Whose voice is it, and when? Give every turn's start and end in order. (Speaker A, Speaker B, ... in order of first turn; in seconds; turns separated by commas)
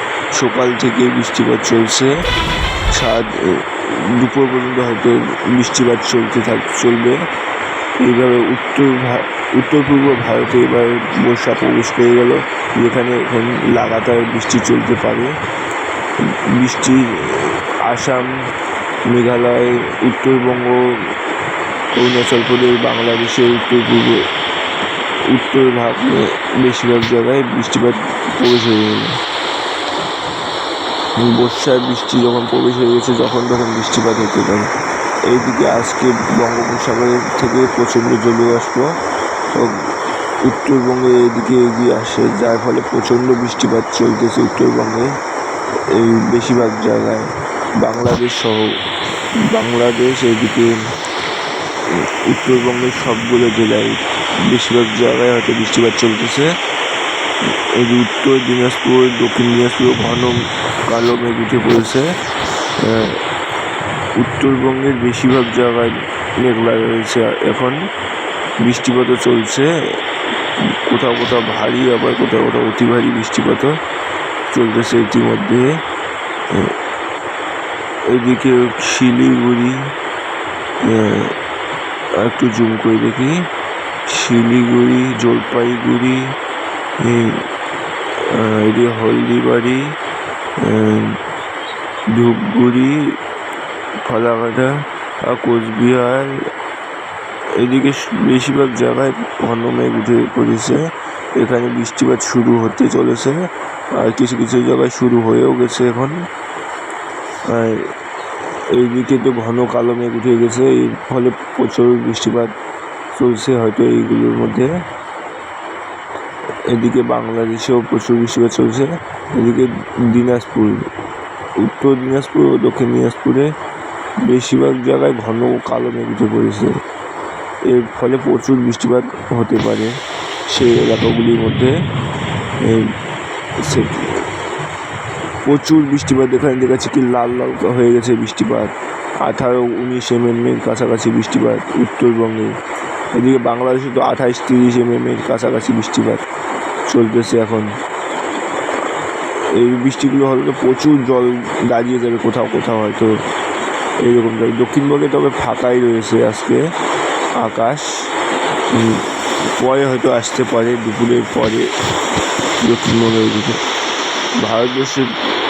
Speaker A: 0.3-2.1, Speaker A: 2.9-7.2, Speaker A: 8.0-15.3, Speaker A: 16.2-18.4, Speaker A: 19.1-21.0, Speaker A: 21.9-24.2, Speaker A: 25.3-29.2, Speaker A: 31.2-34.7, Speaker A: 35.3-38.9, Speaker A: 39.5-39.9, Speaker A: 40.4-45.1, Speaker A: 45.9-48.8, Speaker A: 49.4-50.9, Speaker A: 51.9-56.5, Speaker A: 57.5-62.1, Speaker A: 62.8-63.2, Speaker A: 64.2-67.8, Speaker A: 68.6-69.7, Speaker A: 70.7-73.8, Speaker A: 74.5-75.8, Speaker A: 78.1-79.9, Speaker A: 80.8-81.3, Speaker A: 82.2-83.5, Speaker A: 84.0-86.3, Speaker A: 87.0-87.5, Speaker A: 88.2-90.0, Speaker A: 90.6-91.2, Speaker A: 92.1-93.2, Speaker A: 94.0-96.5, Speaker A: 97.6-106.3, Speaker A: 107.5-107.9, Speaker A: 108.7-112.5, Speaker A: 113.1-114.7, Speaker A: 116.7-120.9, Speaker A: 121.6-123.5, Speaker A: 124.2-126.8, Speaker A: 127.7-131.8, Speaker A: 132.6-132.9, Speaker A: 133.6-134.3, Speaker A: 135.4-138.7, Speaker A: 139.2-142.6, Speaker A: 143.2-146.2, Speaker A: 146.9-147.8, Speaker A: 149.5-153.2, Speaker A: 154.0-156.6, Speaker A: 157.4-158.1, Speaker A: 158.7-159.1, Speaker A: 159.6-161.7, Speaker A: 162.6-163.6, Speaker A: 164.4-165.1